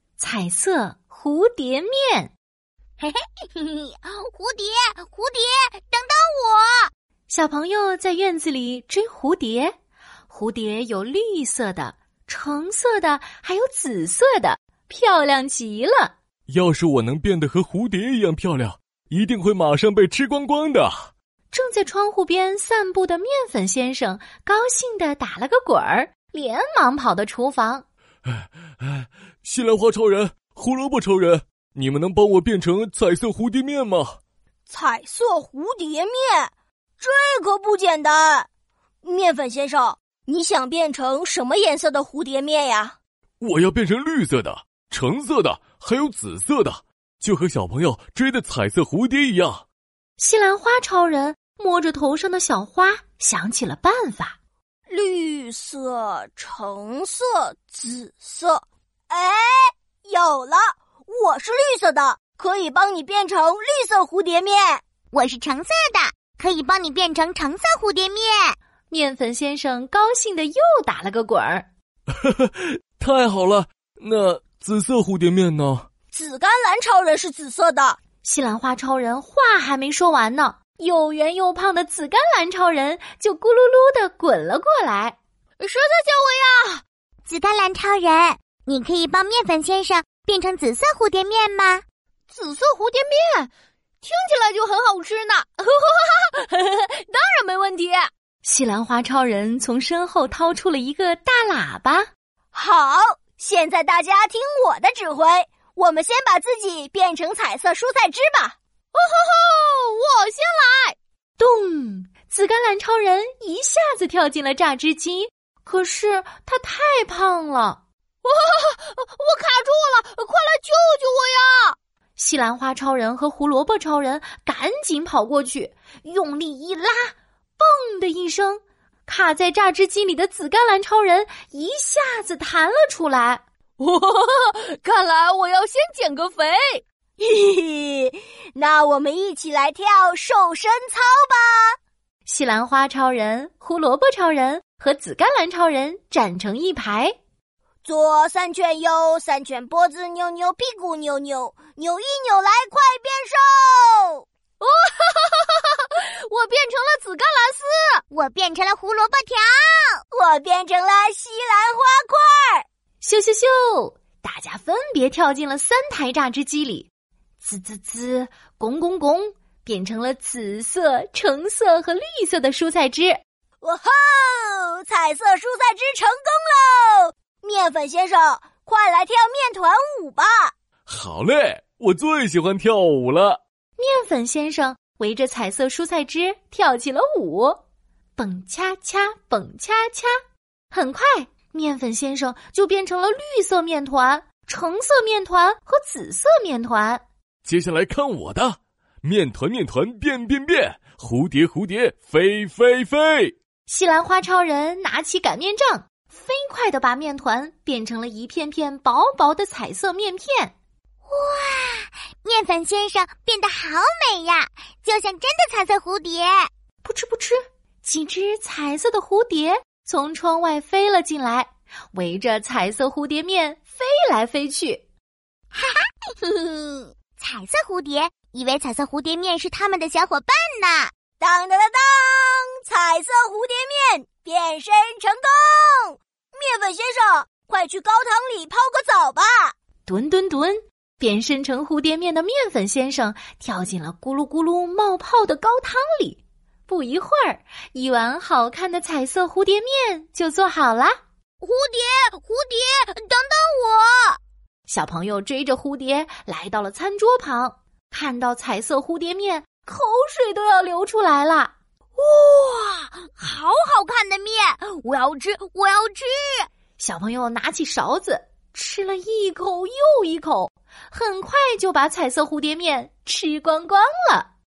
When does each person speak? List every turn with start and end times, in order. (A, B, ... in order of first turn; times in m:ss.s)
0:00.2-0:02.3 A
0:03.0-0:06.9 B
0:07.3-0:09.7 A
0:10.3-0:16.1 A
0:16.5-0:21.1 C
0:21.5-0:27.8 A
0:28.2-0:34.2 C
0:34.7-0:38.5 D
0:39.0-0:42.9 D
0:43.4-0:49.6 C
0:50.2-0:54.4 A
0:54.9-1:04.8 D
1:05.1-1:08.6 B
1:08.9-1:11.6 A
1:12.2-1:15.9 C
1:16.1-1:18.0 D
1:18.2-1:25.2 A
1:25.6-1:26.8 E
1:27.2-1:31.8 B
1:32.3-1:33.5 E
1:34.0-1:38.1 E
1:38.4-1:42.1 A
1:42.5-1:48.5 D
1:48.9-1:51.0 E
1:51.4-1:57.8 A
1:58.2-2:01.8 E
2:02.2-2:13.4 A
2:13.8-2:16.8 E
2:17.2-2:21.8 D
2:22.2-2:27.1 A
2:27.8-2:34.2 D
2:34.6-2:38.0 E
2:38.1-2:40.0 B
2:40.1-2:42.6 D
2:43.0-2:46.9 A
2:47.4-2:53.2 A
2:53.6-3:00.5 D
3:00.9-3:03.4 C
3:03.8-3:07.6 A
3:08.2-3:10.2 A
3:10.7-3:17.0 A
3:17.4-3:23.3 C
3:23.7-3:30.5 A
3:31.1-3:36.5 B
3:36.8-3:44.8 A
3:45.5-3:50.9 B
3:51.2-3:59.5 D
3:59.8-4:11.0 A
4:11.4-4:14.1 D
4:14.7-4:21.5 A
4:23.2-4:26.4 B
4:26.8-4:34.3 A